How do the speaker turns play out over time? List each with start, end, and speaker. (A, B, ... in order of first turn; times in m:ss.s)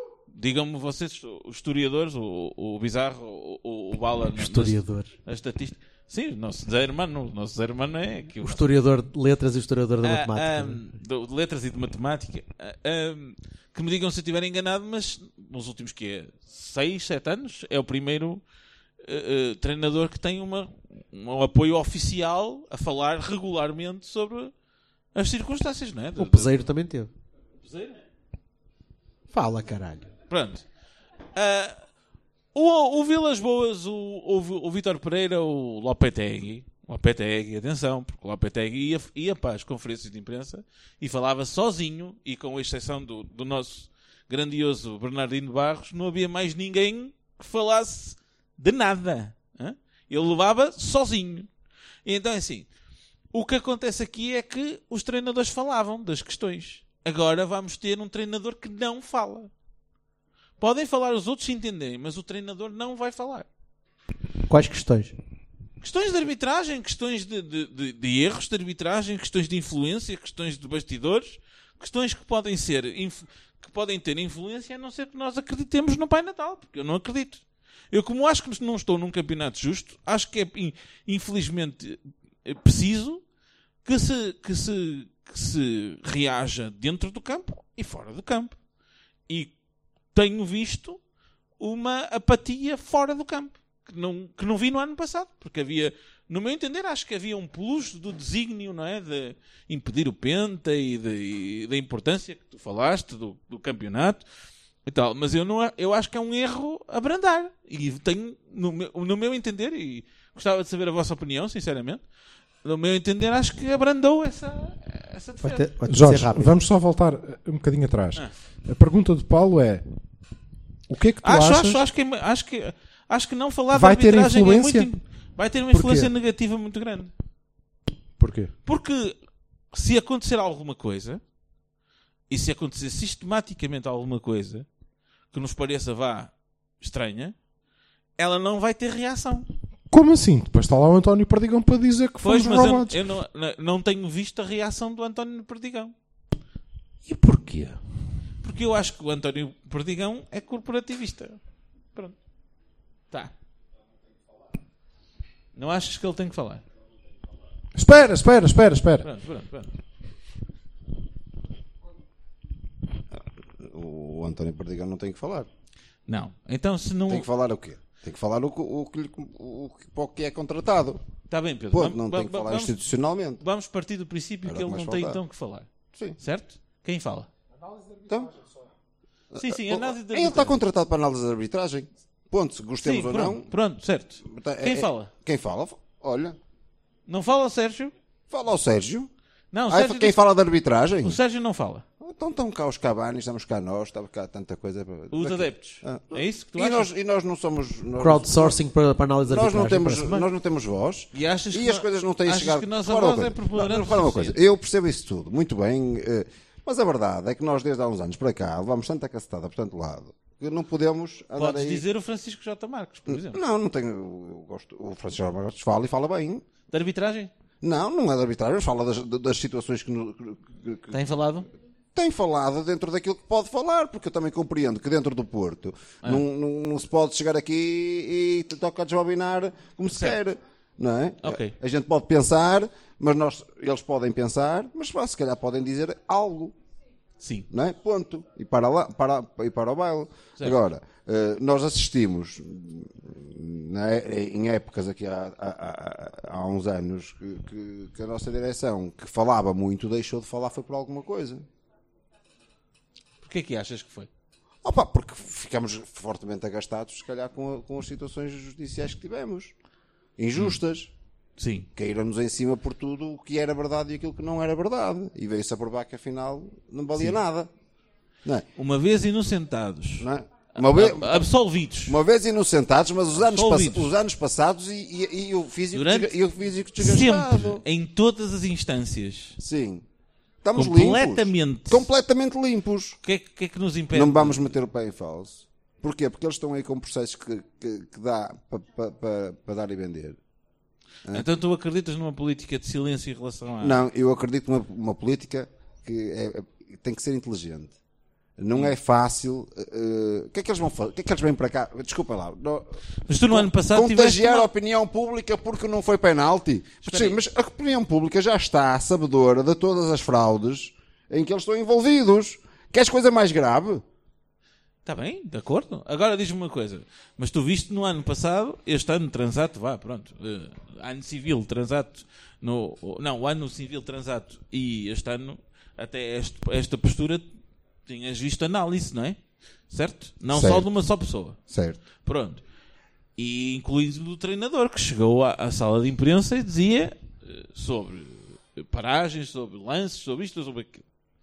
0:00.3-0:08.6 A
0:04.4-0:05.1 B
0:08.4-0:10.8 B
0:10.0-0:18.4 A
0:19.0-0:24.5 A
0:25.1-0:26.6 A
0:26.2-0:27.1 B
0:27.6-0:28.0 A
0:29.3-0:30.1 B
0:30.3-0:30.6 A
0:31.3-0:31.8 A
0:32.5-0:51.5 A
0:52.0-0:52.7 A
0:53.3-0:59.5 A
1:00.6-1:03.4 A
1:04.5-1:05.1 B
1:05.8-1:17.4 A
1:17.9-1:23.2 A
1:23.8-1:28.6 A
1:30.1-1:31.0 A
1:31.6-1:44.2 A
1:44.8-1:52.0 A
1:52.6-1:55.6 A
1:55.4-1:56.5 B
1:55.9-1:59.8 C
2:00.9-2:01.8 C
2:01.2-2:07.1 A
2:03.7-2:04.9 C
2:05.7-2:06.1 C
2:08.2-2:08.5 C
2:08.6-2:09.2 A
2:09.7-2:11.2 A
2:12.3-2:14.6 A
2:15.3-2:17.3 A
2:18.2-2:19.5 A
2:19.9-2:23.0 C
2:22.2-2:25.9 A
2:27.0-2:27.8 C
2:28.4-2:31.4 A
2:35.6-2:36.6 A
2:37.7-2:39.1 C
2:39.0-2:39.7 A
2:43.1-2:45.5 D
2:46.1-2:47.3 A
2:47.1-2:51.0 D
2:51.3-2:55.7 A
2:51.7-2:53.4 D
2:54.4-2:55.2 D
2:56.2-2:57.3 A
2:59.3-3:03.5 D
2:59.4-3:00.6 A
3:02.8-3:05.1 A
3:04.3-3:06.4 D
3:07.1-3:07.9 A
3:08.3-3:09.1 D
3:09.5-3:10.2 A
3:09.7-3:11.2 D
3:11.0-3:11.8 A
3:12.0-3:18.6 D
3:15.1-3:16.9 A
3:18.0-3:20.2 B
3:19.3-3:31.8 D
3:21.1-3:24.4 A
3:31.4-3:33.4 A
3:33.1-3:36.4 D
3:36.7-3:37.3 A
3:37.6-3:41.0 D
3:40.9-3:41.5 A
3:41.9-3:56.5 D
3:49.9-3:50.2 A
3:51.2-3:51.5 A
3:57.2-3:57.5 A
3:57.5-4:11.4 D
4:13.2-4:14.1 A
4:14.6-4:19.5 D
4:20.2-4:20.9 D
4:21.4-4:21.7 A
4:21.7-4:27.5 D
4:28.6-4:32.0 A
4:30.0-4:31.2 D
4:31.9-4:37.6 D
4:33.2-4:33.9 A
4:35.7-4:36.2 A
4:36.8-4:39.4 A
4:39.4-4:39.8 D
4:40.4-4:43.0 D
4:40.6-4:41.9 A
4:43.0-4:44.5 A
4:43.9-4:50.2 D
4:51.1-4:53.8 A
4:53.6-4:57.7 D
4:58.4-5:02.7 D
5:03.1-5:04.5 A
5:03.3-5:13.8 D
5:06.8-5:07.2 A
5:14.8-5:27.2 A
5:27.8-5:29.2 A
5:29.7-5:31.4 A
5:30.3-5:30.7 D
5:31.5-5:31.8 D
5:32.0-5:32.4 A
5:33.2-5:40.8 A